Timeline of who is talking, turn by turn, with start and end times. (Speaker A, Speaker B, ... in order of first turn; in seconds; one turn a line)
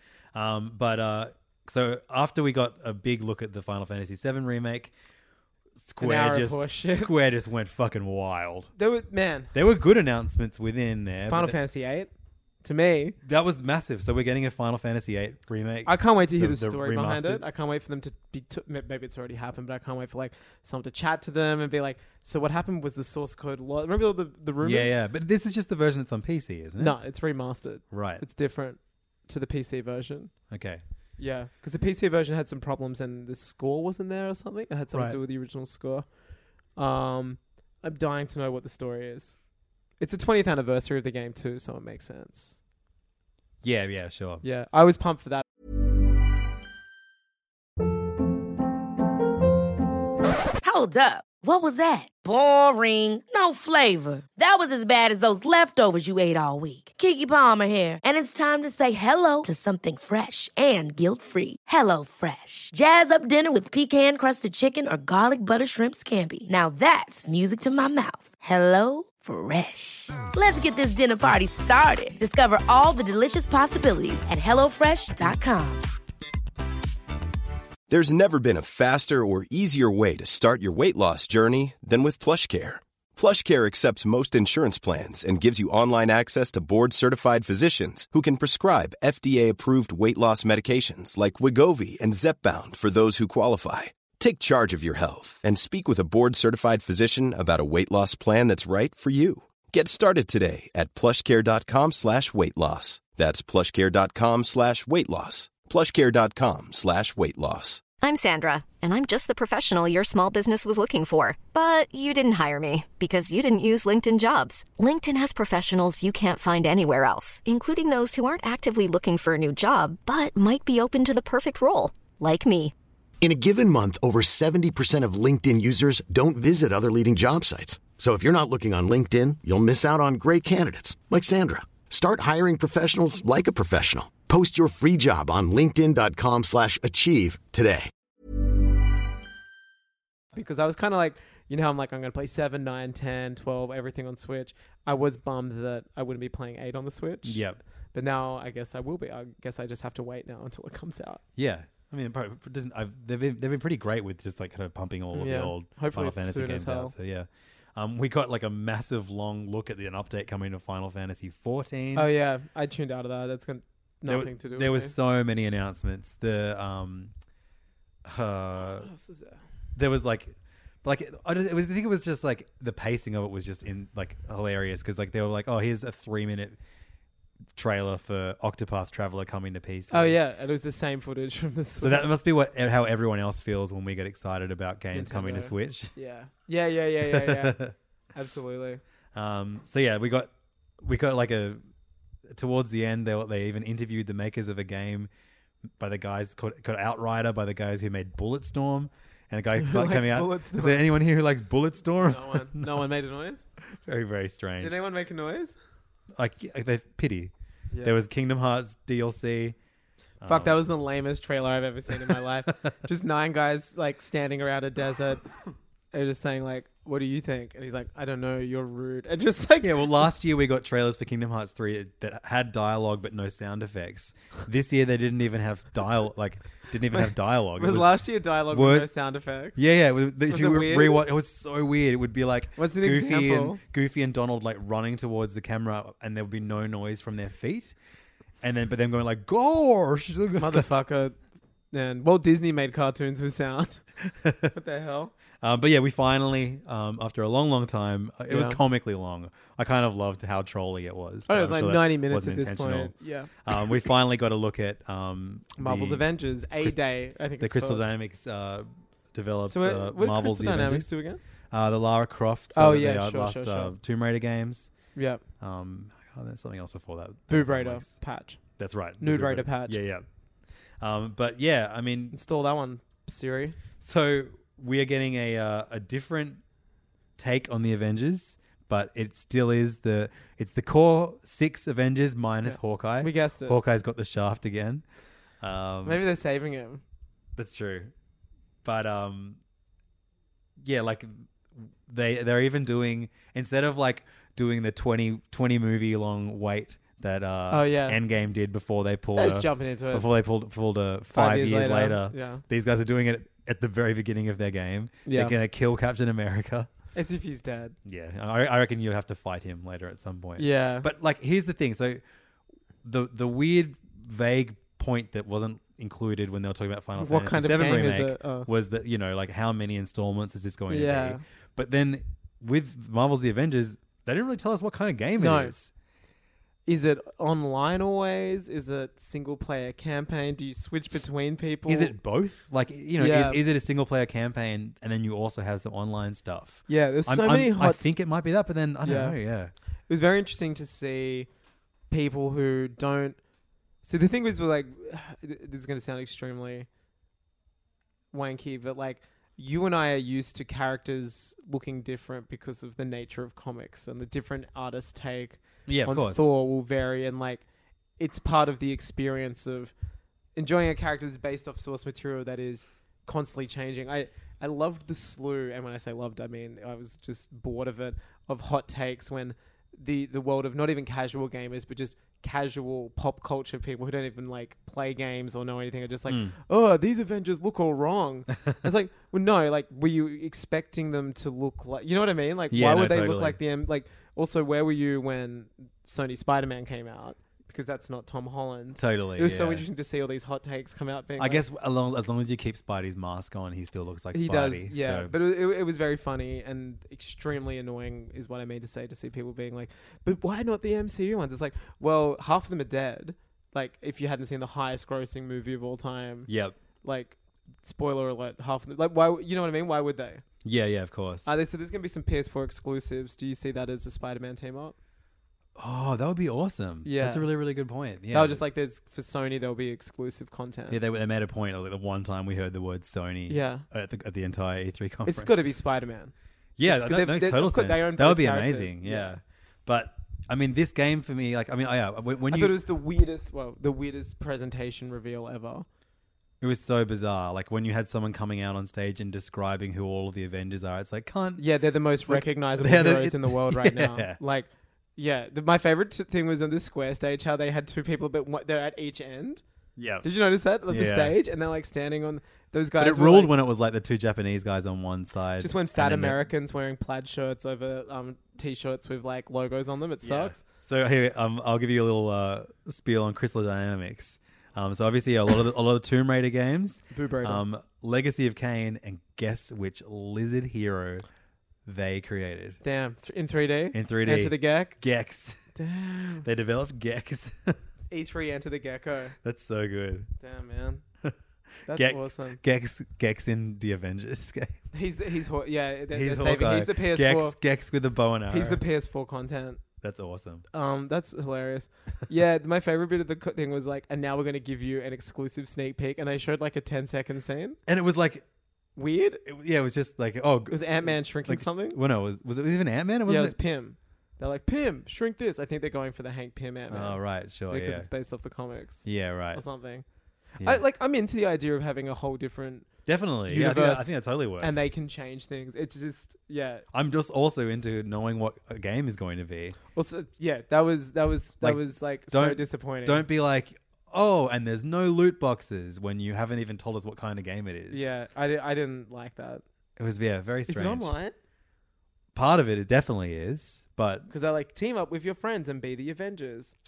Speaker A: 0.3-4.9
Speaker A: 5.8-8.7
Speaker B: 6.0-7.1
Speaker B: 8.8-9.5
Speaker A: 9.5-11.6
Speaker B: 11.2-12.1
Speaker B: 12.6-13.2
Speaker A: 13.2-17.4
Speaker B: 15.8-25.0
Speaker A: 24.6-27.0
Speaker B: 26.8-30.3
Speaker A: 27.9-28.2
Speaker A: 30.5-30.8
Speaker B: 31.2-36.1
Speaker A: 34.9-35.2
Speaker B: 36.7-39.4
Speaker B: 40.0-42.6
Speaker A: 43.6-44.4
Speaker B: 44.4-45.4
Speaker C: 50.6-75.8
Speaker D: 77.9-107.8
Speaker E: 108.0-122.7
Speaker F: 123.2-137.9
Speaker B: 140.3-147.4
Speaker A: 147.2-147.6
Speaker B: 147.9-151.2
Speaker A: 151.3-162.1
Speaker B: 155.1-156.9
Speaker B: 161.9-164.9
Speaker A: 164.0-167.1
Speaker A: 168.0-168.9
Speaker B: 168.8-169.4
Speaker A: 169.7-176.6
Speaker A: 177.6-180.2
Speaker B: 179.9-182.2
Speaker A: 181.8-185.9
Speaker B: 184.9-187.6
Speaker A: 187.0-187.7
Speaker B: 188.1-188.8
Speaker A: 189.1-191.6
Speaker A: 192.3-195.1
Speaker A: 195.8-202.8
Speaker B: 199.5-200.8
Speaker B: 202.1-203.4
Speaker A: 203.7-204.8
Speaker B: 204.6-205.6
Speaker A: 206.1-209.6
Speaker A: 210.2-210.6
Speaker B: 210.2-215.2
Speaker A: 212.0-212.7
Speaker B: 215.9-220.0
Speaker A: 219.6-228.9
Speaker B: 227.6-229.6
Speaker A: 229.5-237.8
Speaker B: 230.3-231.0
Speaker B: 232.6-233.6
Speaker A: 238.4-240.7
Speaker B: 240.4-241.2
Speaker B: 241.7-243.8
Speaker A: 244.0-244.5
Speaker B: 244.5-245.1
Speaker A: 245.4-256.8
Speaker B: 248.3-248.6
Speaker B: 251.3-253.7
Speaker B: 255.6-257.8
Speaker A: 257.4-260.9
Speaker B: 259.5-261.2
Speaker A: 261.5-264.7
Speaker B: 262.5-263.7
Speaker B: 264.9-265.2
Speaker A: 265.4-267.9
Speaker B: 267.3-268.4
Speaker A: 268.6-270.1
Speaker B: 269.0-269.8
Speaker A: 270.8-272.2
Speaker B: 272.1-273.6
Speaker A: 273.8-276.4
Speaker A: 277.2-284.8
Speaker B: 282.4-283.6
Speaker A: 285.4-286.0
Speaker B: 285.8-286.8
Speaker A: 287.4-287.9
Speaker A: 288.6-289.4
Speaker A: 290.6-306.7
Speaker B: 297.5-298.0
Speaker B: 299.1-300.1
Speaker B: 301.1-302.4
Speaker B: 305.1-305.3
Speaker B: 306.9-307.8
Speaker A: 307.8-312.0
Speaker B: 310.4-310.9
Speaker A: 312.8-325.7
Speaker B: 316.9-318.5
Speaker B: 320.7-321.2
Speaker B: 325.2-325.5
Speaker B: 326.6-331.9
Speaker A: 331.7-339.5
Speaker B: 333.0-333.4
Speaker B: 336.7-337.9
Speaker B: 338.8-339.1
Speaker B: 339.9-341.3
Speaker B: 341.9-343.2
Speaker B: 343.8-346.7
Speaker B: 348.1-357.4
Speaker A: 355.7-356.3
Speaker B: 358.0-359.7
Speaker B: 360.4-391.4
Speaker A: 376.1-376.3
Speaker A: 382.5-383.4
Speaker A: 388.8-389.6
Speaker A: 391.2-395.1
Speaker B: 394.1-406.3
Speaker A: 406.3-406.6
Speaker B: 406.8-410.2
Speaker A: 410.4-411.3
Speaker B: 411.2-414.8
Speaker A: 415.6-418.4
Speaker B: 416.8-417.3
Speaker B: 418.1-420.8
Speaker A: 420.7-425.3
Speaker B: 423.3-423.6
Speaker B: 425.0-429.1
Speaker A: 426.6-432.6
Speaker B: 432.3-435.7
Speaker A: 436.4-441.4
Speaker B: 441.4-449.4
Speaker A: 442.1-444.2
Speaker A: 449.8-450.1
Speaker B: 450.0-453.3
Speaker A: 450.7-451.1
Speaker A: 452.8-456.3
Speaker B: 455.4-460.4
Speaker A: 460.0-471.1
Speaker B: 466.9-467.4
Speaker A: 471.6-472.6
Speaker B: 472.6-474.8
Speaker A: 473.7-475.5
Speaker B: 475.5-476.2
Speaker A: 476.2-477.6
Speaker B: 477.9-479.1
Speaker A: 479.2-480.1
Speaker B: 480.2-480.8
Speaker B: 481.6-482.4
Speaker A: 481.6-484.6
Speaker B: 484.7-487.4
Speaker A: 485.9-488.6
Speaker B: 488.3-489.6
Speaker A: 489.8-490.4
Speaker B: 490.5-497.6
Speaker A: 497.7-498.2
Speaker B: 498.8-499.2
Speaker A: 499.2-503.4
Speaker B: 500.5-501.8
Speaker B: 503.1-516.6
Speaker A: 506.7-507.9
Speaker A: 508.8-509.4
Speaker A: 512.9-514.6
Speaker A: 516.7-519.6
Speaker B: 519.7-523.0
Speaker A: 521.4-527.9
Speaker B: 527.7-529.4
Speaker A: 529.8-530.9
Speaker B: 530.5-531.1
Speaker A: 532.1-534.1
Speaker B: 534.1-536.5